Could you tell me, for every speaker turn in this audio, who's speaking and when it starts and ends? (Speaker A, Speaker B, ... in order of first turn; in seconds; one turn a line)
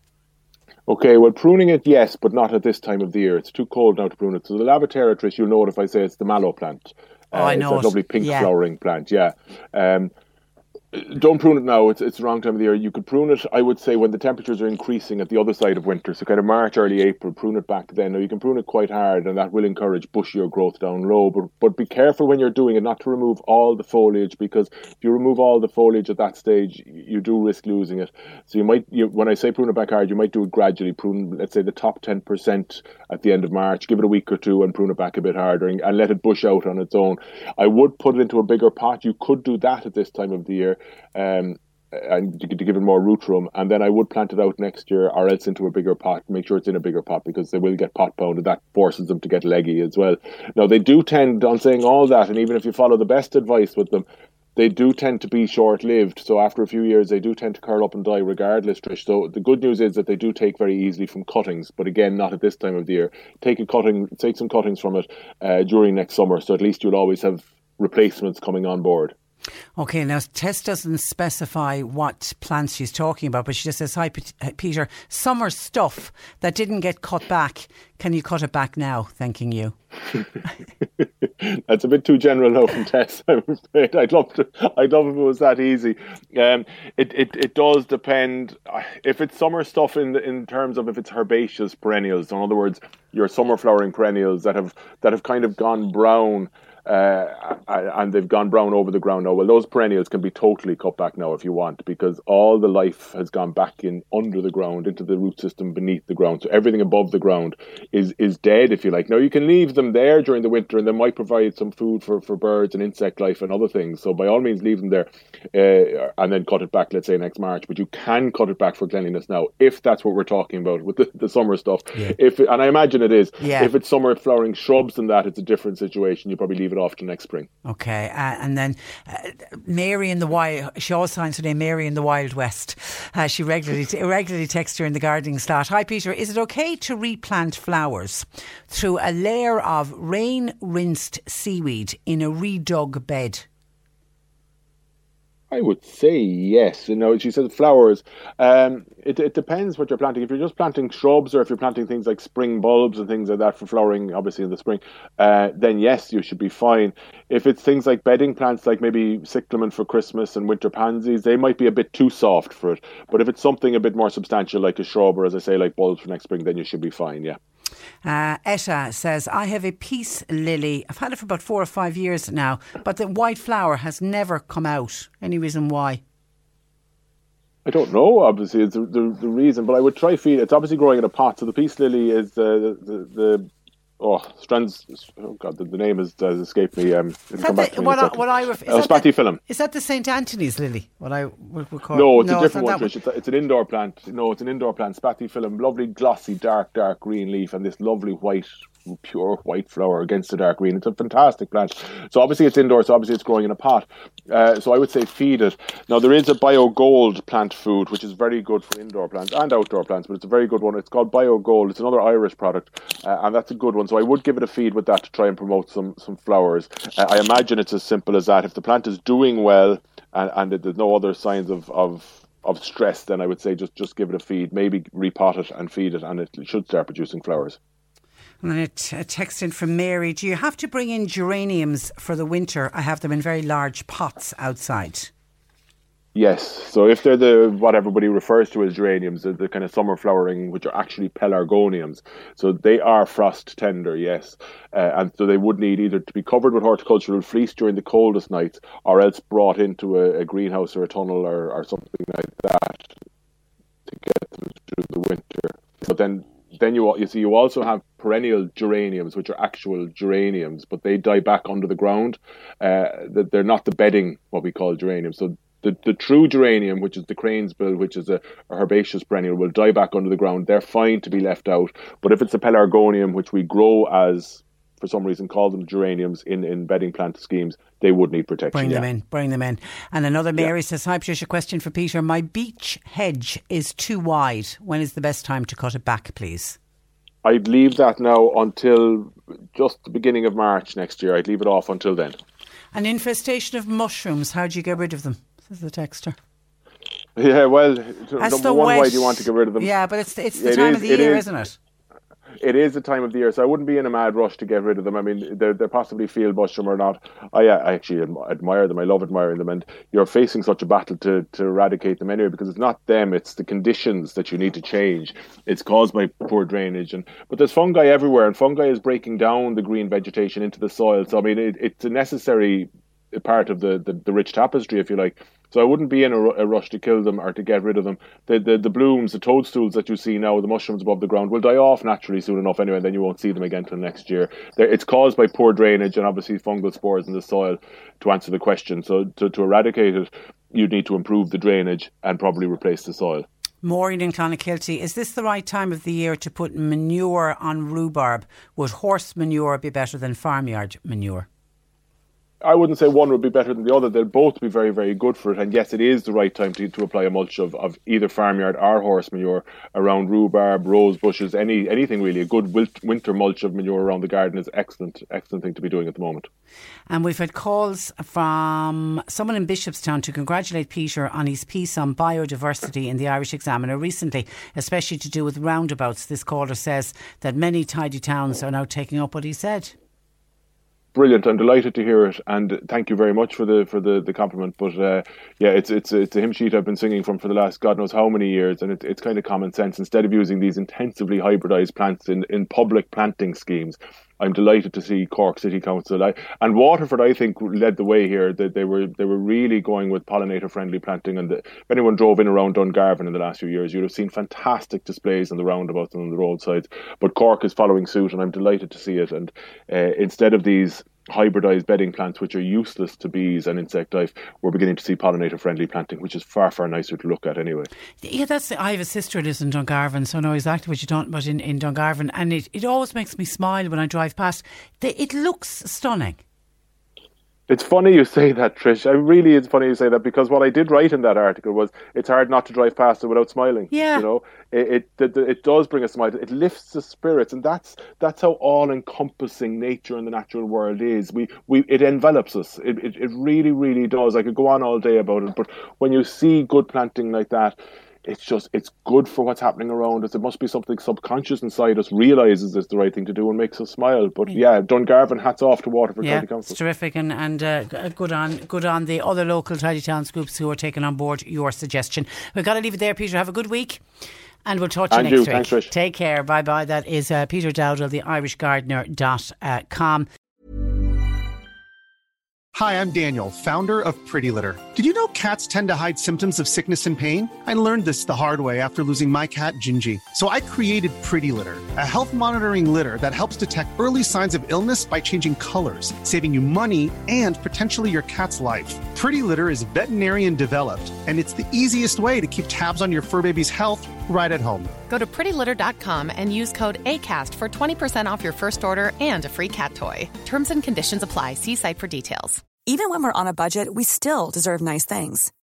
Speaker A: 0.9-10.1
Speaker B: 7.3-8.5
Speaker A: 10.9-54.0
Speaker A: 54.5-69.1
Speaker B: 69.8-79.7
Speaker A: 81.0-127.5
Speaker B: 123.4-123.7
Speaker B: 127.6-143.4
Speaker A: 145.5-167.4
Speaker B: 168.0-176.0
Speaker A: 177.7-183.5
Speaker A: 184.0-189.4
Speaker B: 187.4-192.9
Speaker A: 191.9-198.5
Speaker A: 199.0-227.6
Speaker B: 228.4-235.1
Speaker A: 236.1-252.9
Speaker A: 253.9-278.9
Speaker B: 278.5-286.6
Speaker A: 287.2-292.2
Speaker B: 292.7-296.1
Speaker A: 297.2-299.7
Speaker B: 298.2-301.6
Speaker A: 300.3-301.2
Speaker A: 302.4-343.2
Speaker B: 343.6-351.3
Speaker A: 352.4-366.3
Speaker B: 366.9-379.7
Speaker A: 380.9-417.7
Speaker B: 418.0-426.2
Speaker A: 427.5-456.5
Speaker B: 433.7-434.0
Speaker B: 456.0-463.8
Speaker B: 464.4-470.1
Speaker A: 464.9-465.7
Speaker C: 472.5-494.7
Speaker D: 494.9-502.4
Speaker E: 502.6-505.3